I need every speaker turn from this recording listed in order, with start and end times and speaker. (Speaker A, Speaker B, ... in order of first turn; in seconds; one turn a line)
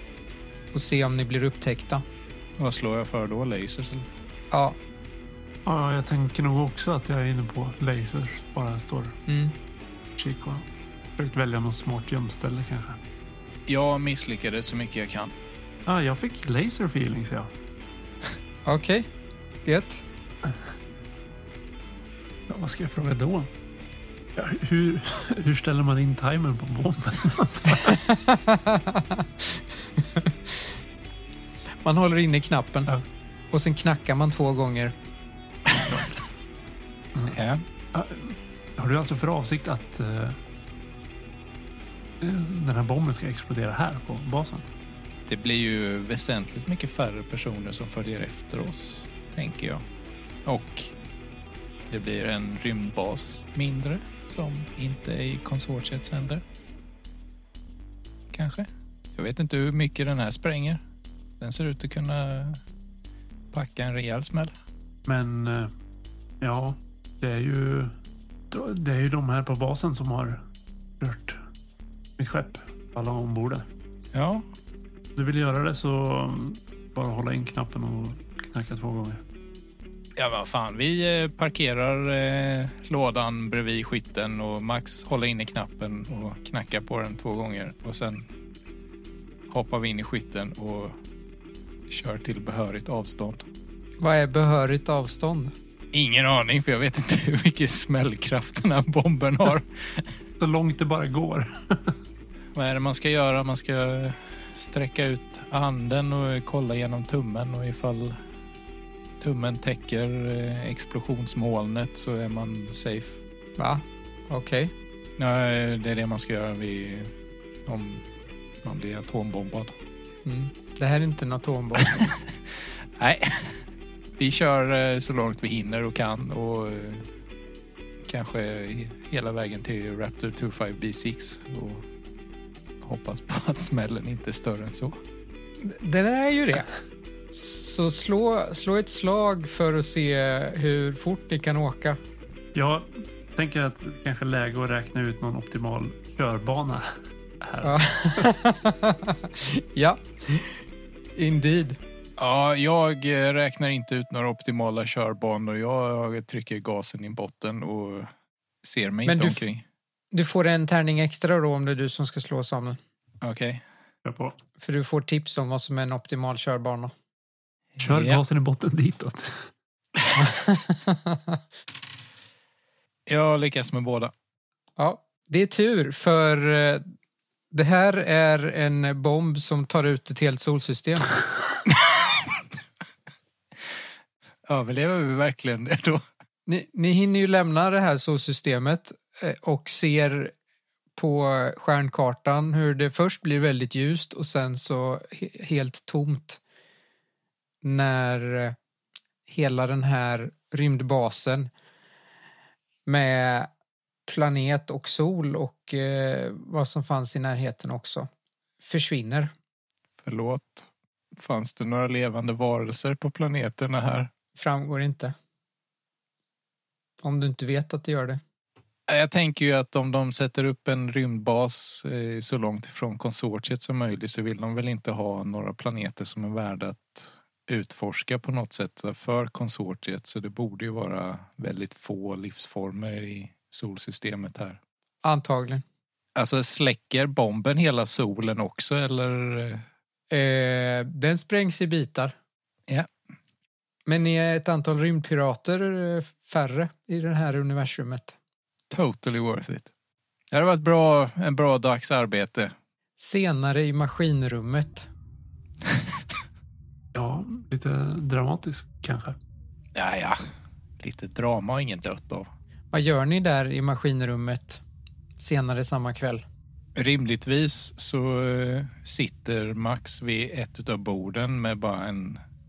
Speaker A: 0.7-2.0
Speaker B: 2.6-4.1
Speaker A: 4.5-4.8
Speaker C: 5.7-9.2
Speaker A: 9.3-9.6
Speaker C: 10.2-13.0
Speaker B: 13.7-15.3
Speaker C: 15.9-17.5
Speaker A: 18.7-19.1
Speaker A: 19.6-20.0
Speaker C: 22.5-23.5
Speaker C: 24.4-28.0
Speaker A: 27.8-30.6
Speaker A: 31.8-32.9
Speaker A: 33.5-34.9
Speaker B: 37.3-37.6
Speaker C: 37.9-40.4
Speaker C: 42.2-44.7
Speaker B: 45.3-49.8
Speaker B: 50.5-50.9
Speaker B: 51.9-56.4
Speaker B: 58.3-60.8
Speaker B: 61.4-62.6
Speaker B: 63.5-64.5
Speaker C: 65.1-65.7
Speaker C: 66.4-67.9
Speaker C: 68.5-70.4
Speaker C: 71.0-71.4
Speaker C: 72.2-73.7
Speaker B: 74.1-74.5
Speaker C: 75.2-79.2
Speaker B: 80.2-88.3
Speaker B: 89.5-91.0
Speaker B: 91.9-93.4
Speaker A: 94.0-95.5
Speaker B: 95.9-100.1
Speaker C: 100.4-102.0
Speaker B: 102.5-108.2
Speaker B: 109.2-113.2
Speaker A: 113.6-114.7
Speaker B: 115.2-117.1
Speaker B: 117.7-118.0
Speaker B: 118.6-119.7
Speaker A: 120.2-121.9
Speaker B: 123.0-123.6
Speaker B: 124.2-127.1
Speaker B: 128.1-131.8
Speaker B: 132.8-135.0
Speaker A: 135.6-136.7
Speaker A: 137.3-142.0
Speaker C: 142.5-146.9
Speaker C: 147.4-148.3
Speaker A: 147.6-150.6
Speaker A: 151.2-151.8
Speaker B: 152.2-158.1
Speaker B: 158.6-159.6
Speaker A: 159.1-159.4
Speaker A: 160.1-162.8
Speaker B: 163.2-163.6
Speaker C: 164.1-164.3
Speaker A: 164.6-166.9
Speaker B: 167.8-168.2
Speaker C: 167.8-169.5
Speaker A: 170.2-171.4
Speaker B: 173.1-174.1
Speaker A: 174.8-176.8
Speaker A: 177.5-181.1
Speaker B: 184.5-186.0
Speaker A: 186.5-190.3
Speaker A: 191.0-196.4
Speaker A: 197.6-198.6
Speaker A: 199.3-201.5
Speaker A: 202.9-203.5
Speaker A: 204.1-208.1
Speaker A: 208.6-209.3
Speaker B: 210.0-214.1
Speaker A: 214.4-215.1
Speaker A: 217.0-218.2
Speaker B: 218.9-234.6
Speaker A: 235.0-235.6
Speaker B: 236.2-239.6
Speaker A: 240.1-242.2
Speaker A: 243.9-248.2
Speaker B: 248.7-249.7
Speaker B: 250.3-252.5
Speaker A: 253.0-254.9
Speaker C: 256.9-259.2
Speaker B: 259.8-260.2
Speaker B: 260.8-262.3
Speaker A: 262.7-264.6
Speaker A: 265.2-266.2
Speaker B: 266.8-272.2